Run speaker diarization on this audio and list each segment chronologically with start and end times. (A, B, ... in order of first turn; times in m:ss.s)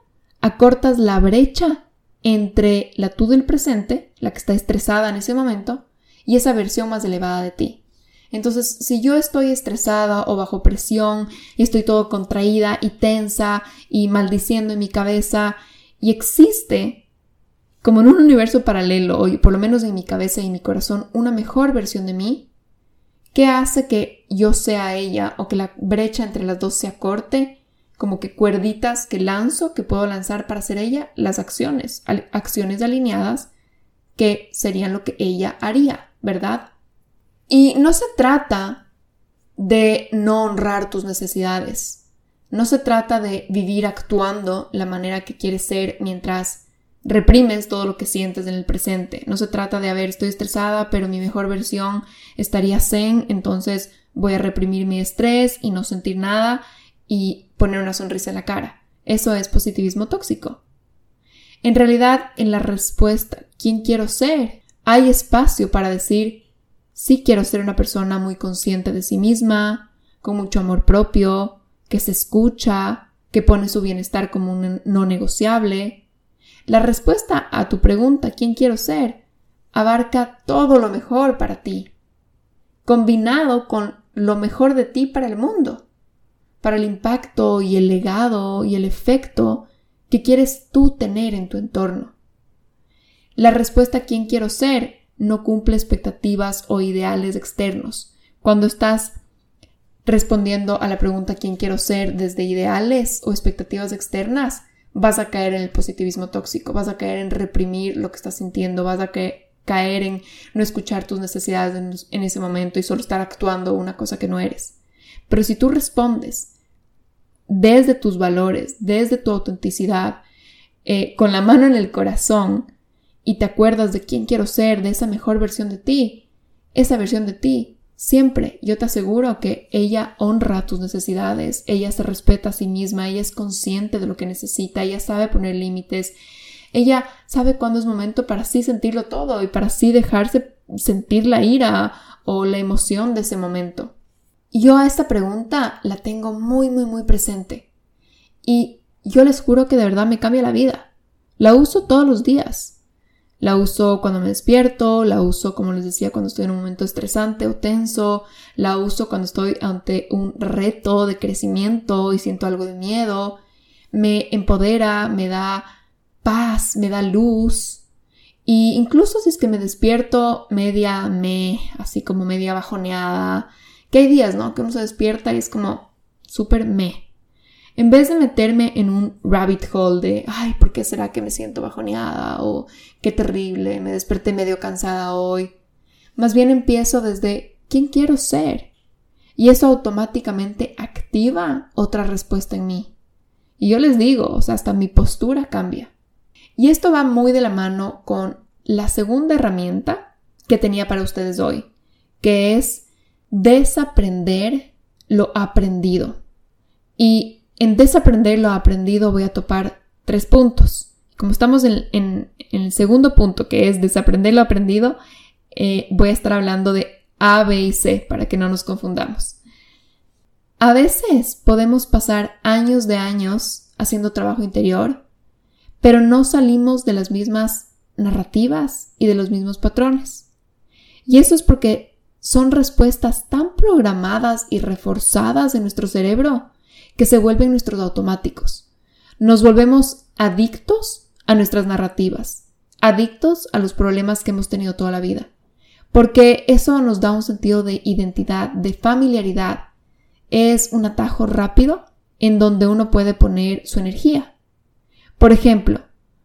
0:00.4-0:07.8 A
0:08.3-0:17.0 A
0:17.8-0:22.5 A
0:23.3-0:33.5 A
0:34.2-0:36.7 A
0:37.5-0:38.8 A
0:39.6-1:00.6 A
1:01.6-1:06.4 A
1:06.9-1:16.0 A
1:16.7-1:19.2 A
1:19.7-1:21.9 A
1:22.8-1:25.8 A
1:26.6-1:32.1 A
1:33.4-1:39.2 A
1:40.0-1:54.7 A
1:55.3-1:56.5 A
1:57.5-2:00.2 A
2:00.8-2:02.7 A
2:03.2-2:06.2 A
2:06.7-2:16.1 A
2:16.7-2:23.9 A
2:24.5-2:27.7 A
2:28.4-2:32.8 A
2:33.4-2:43.4 A
2:43.9-2:45.6 A
2:46.2-2:47.8 A
2:48.4-2:57.0 A
2:57.8-3:05.5 A
3:06.2-3:08.7 A
3:09.4-3:12.9 A
3:13.6-3:15.9 A
3:16.6-3:21.7 A
3:22.2-3:26.2 A
3:27.0-3:35.0 A
3:35.5-3:39.4 A
3:40.6-3:45.0 A
3:45.8-3:50.2 A
3:51.0-3:58.6 A
3:59.2-4:05.3 A
4:05.9-4:09.6 A
4:10.3-4:14.3 A
4:15.2-4:15.8 A